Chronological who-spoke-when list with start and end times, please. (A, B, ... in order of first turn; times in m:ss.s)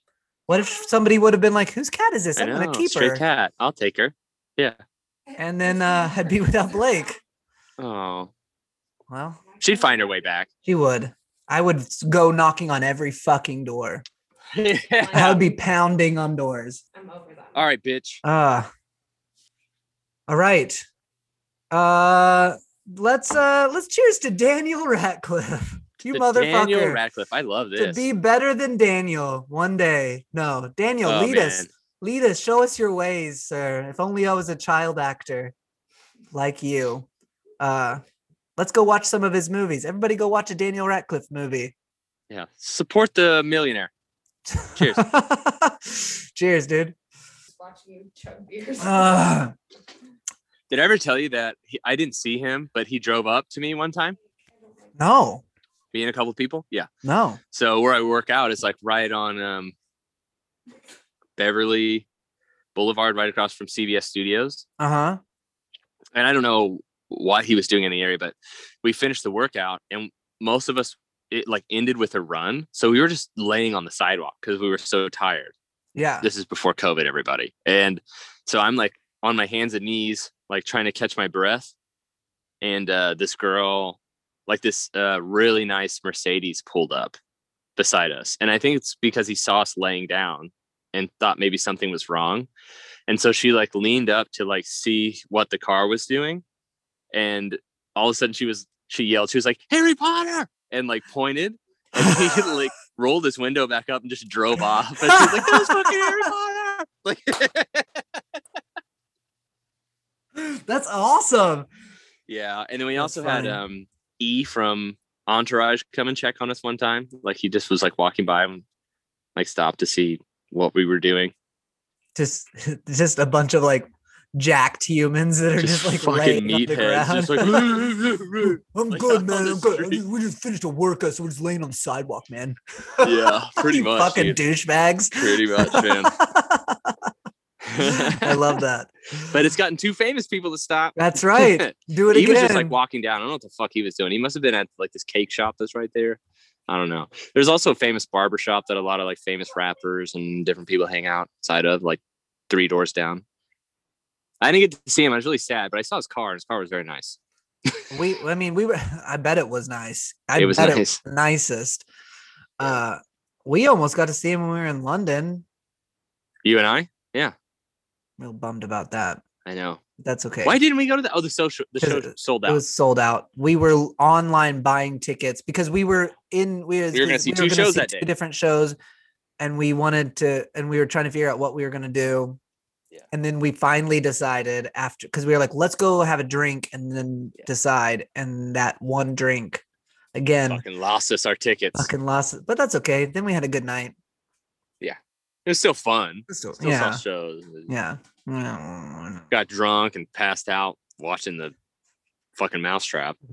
0:00.5-0:03.2 A
0:02.4-0:04.8 B
0:05.3-0:07.2 C
0:05.4-0:07.2 A
0:07.8-0:08.3 B
0:09.1-0:09.4 A
0:09.6-0:10.1 C
0:09.6-0:10.5 B
0:10.6-0:14.0 A
0:14.5-0:15.4 B
0:15.0-0:15.5 C
0:15.1-0:16.8 A
0:16.9-0:17.6 C
0:17.5-0:18.2 B
0:18.2-0:18.7 A
0:20.3-0:20.8 A
0:21.7-0:27.0 A
0:26.1-0:28.1 B
0:27.8-0:35.5 A
0:31.0-0:31.7 B
0:36.3-0:37.1 A
0:37.6-0:38.0 A
0:38.6-0:41.7 A
0:42.3-0:43.9 B
0:44.5-0:47.0 A
0:44.7-0:45.1 B
0:47.5-0:49.4 C
0:48.8-0:49.5 A
0:50.7-0:54.2 B
0:54.6-0:54.9 C
0:55.0-0:55.4 A
0:55.9-0:56.9 B
0:57.0-0:57.4 A
0:57.5-0:59.7 B
1:01.4-1:02.1 B
1:02.7-1:04.6 B
1:04.8-1:05.2 A
1:06.1-1:15.5 B
1:15.9-1:16.3 A
1:16.2-1:21.7 B
1:22.6-1:27.2 B
1:27.8-1:32.5 B
1:33.1-1:36.4 B
1:37.1-1:48.2 B
1:42.0-1:42.5 A
1:45.0-1:46.3 A
1:50.3-1:51.7 A
1:52.3-1:58.6 B
1:53.0-1:53.6 A
1:59.4-2:01.3 B
2:02.1-2:08.0 A
2:05.6-2:10.0 B
2:08.6-2:17.1 A
2:13.0-2:14.4 B
2:15.1-2:16.1 B
2:17.7-2:18.6 B
2:17.8-2:19.3 A
2:19.3-2:33.2 B
2:21.0-2:22.7 A
2:34.4-2:37.2 B
2:37.9-2:41.8 A
2:40.4-2:41.0 B
2:42.6-2:45.4 A
2:46.4-2:47.3 B
2:48.2-2:49.2 A
2:49.4-2:49.8 B
2:50.0-2:50.6 A
2:50.4-2:52.6 B
2:51.8-2:58.8 A
2:56.9-2:58.1 B
2:59.4-3:02.4 A
3:03.1-3:09.6 A
3:10.1-3:10.6 A
3:10.5-3:11.9 B
3:11.7-3:13.9 A
3:14.8-3:17.7 B
3:16.3-3:17.0 A
3:17.7-3:19.3 A
3:19.3-3:21.5 B
3:22.3-3:23.2 B